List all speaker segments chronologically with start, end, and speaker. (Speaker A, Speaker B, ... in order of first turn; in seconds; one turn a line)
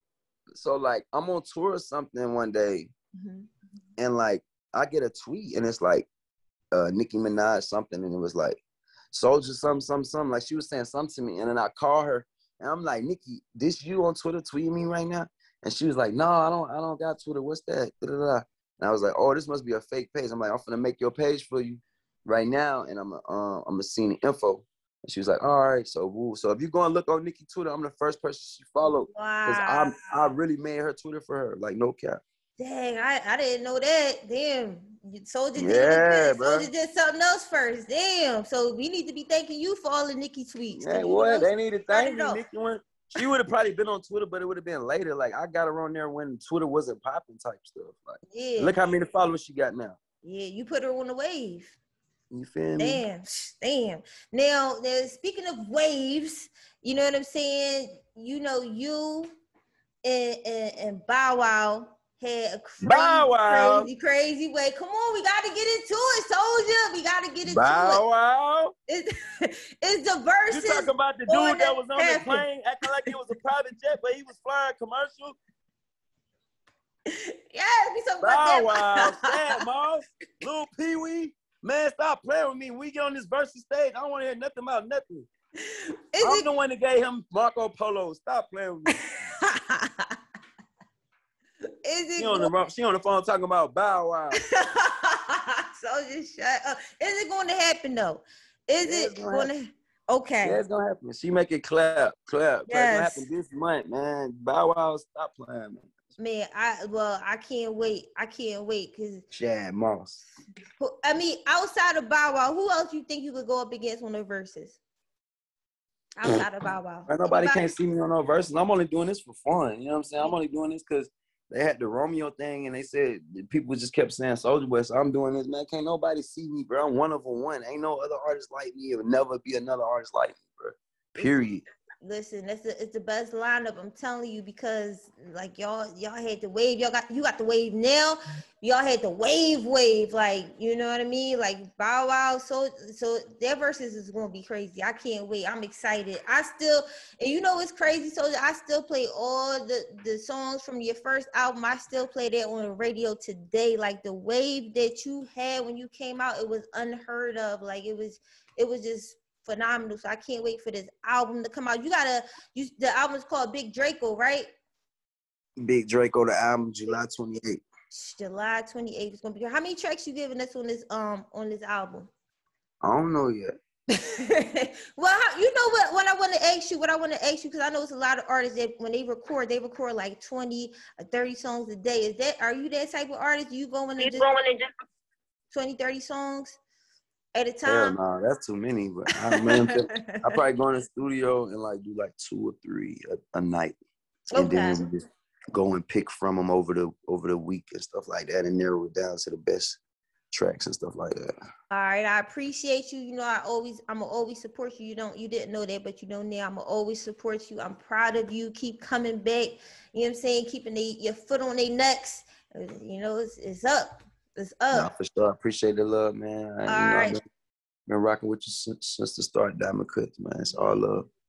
Speaker A: 0.6-2.9
Speaker B: 3.2-3.5
Speaker A: 4.0-6.1
Speaker A: 6.7-32.2
Speaker B: 28.8-30.3
Speaker B: 32.6-42.4
Speaker A: 35.6-36.7
Speaker A: 40.8-50.0
Speaker B: 48.3-48.8
Speaker B: 50.2-51.8
Speaker A: 52.3-53.0
Speaker B: 52.8-59.4
Speaker B: 60.0-68.0
Speaker A: 62.8-63.9
Speaker A: 67.5-68.7
Speaker B: 68.9-72.5
Speaker A: 70.5-75.4
Speaker B: 77.1-79.3
Speaker A: 78.2-85.3
Speaker B: 85.7-86.5
Speaker A: 86.2-89.0
Speaker B: 88.9-90.2
Speaker B: 91.8-92.5
Speaker A: 92.2-94.4
Speaker B: 94.5-100.6
Speaker A: 98.8-99.5
Speaker A: 100.4-105.9
Speaker B: 102.7-103.3
Speaker B: 106.2-109.2
Speaker A: 109.3-110.2
Speaker B: 110.8-114.8
Speaker B: 116.2-117.7
Speaker A: 117.1-131.6
Speaker B: 132.0-164.5
Speaker A: 165.6-167.7
Speaker B: 167.9-172.1
Speaker A: 172.8-173.5
Speaker B: 173.9-184.4
Speaker B: 185.5-186.6
Speaker B: 187.3-187.9
Speaker A: 187.6-193.8
Speaker B: 189.3-190.2
Speaker B: 194.3-194.8
Speaker A: 194.3-199.8
Speaker A: 200.3-201.3
Speaker B: 201.7-214.9
Speaker A: 214.7-217.2
Speaker B: 216.7-217.2
Speaker A: 217.9-221.1